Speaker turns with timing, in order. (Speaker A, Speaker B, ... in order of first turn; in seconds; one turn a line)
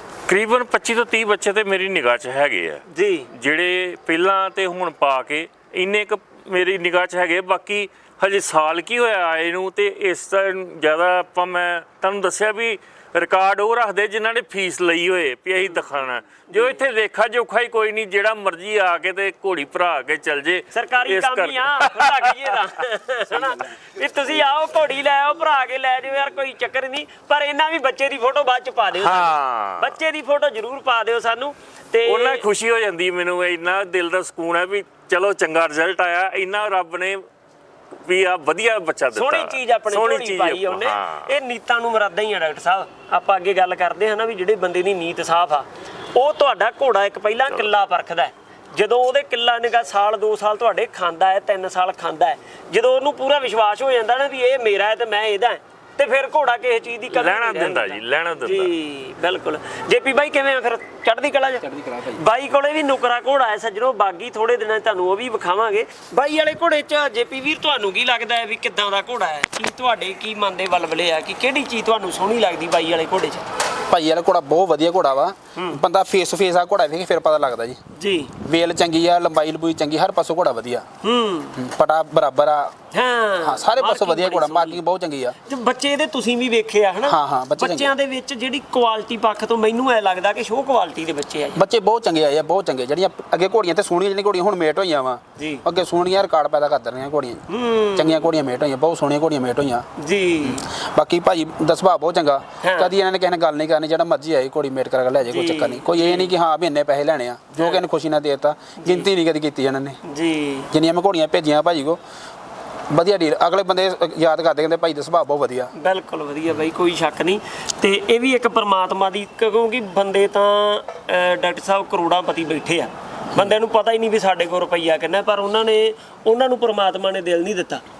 Speaker A: 0.3-22.6
Speaker B: 2.9-3.3
Speaker B: 16.5-16.8
Speaker B: 20.7-32.4
Speaker A: 28.9-29.9
Speaker A: 32.0-37.2
Speaker A: 38.0-41.3
Speaker B: 39.1-73.5
Speaker A: 57.1-58.7
Speaker C: 61.6-62.2
Speaker C: 73.9-77.8
Speaker B: 77.9-78.3
Speaker C: 78.4-80.9
Speaker B: 81.0-81.6
Speaker C: 81.6-82.8
Speaker B: 82.9-84.8
Speaker C: 83.4-85.4
Speaker B: 85.5-91.6
Speaker C: 87.1-87.9
Speaker C: 91.5-97.5
Speaker B: 95.4-95.6
Speaker B: 97.5-98.2
Speaker C: 98.0-99.9
Speaker B: 100.0-100.6
Speaker C: 100.4-110.0
Speaker B: 102.6-102.9
Speaker B: 105.3-106.3
Speaker B: 108.8-109.1
Speaker B: 110.0-110.7
Speaker C: 110.7-112.0
Speaker C: 112.9-115.7
Speaker B: 115.8-127.8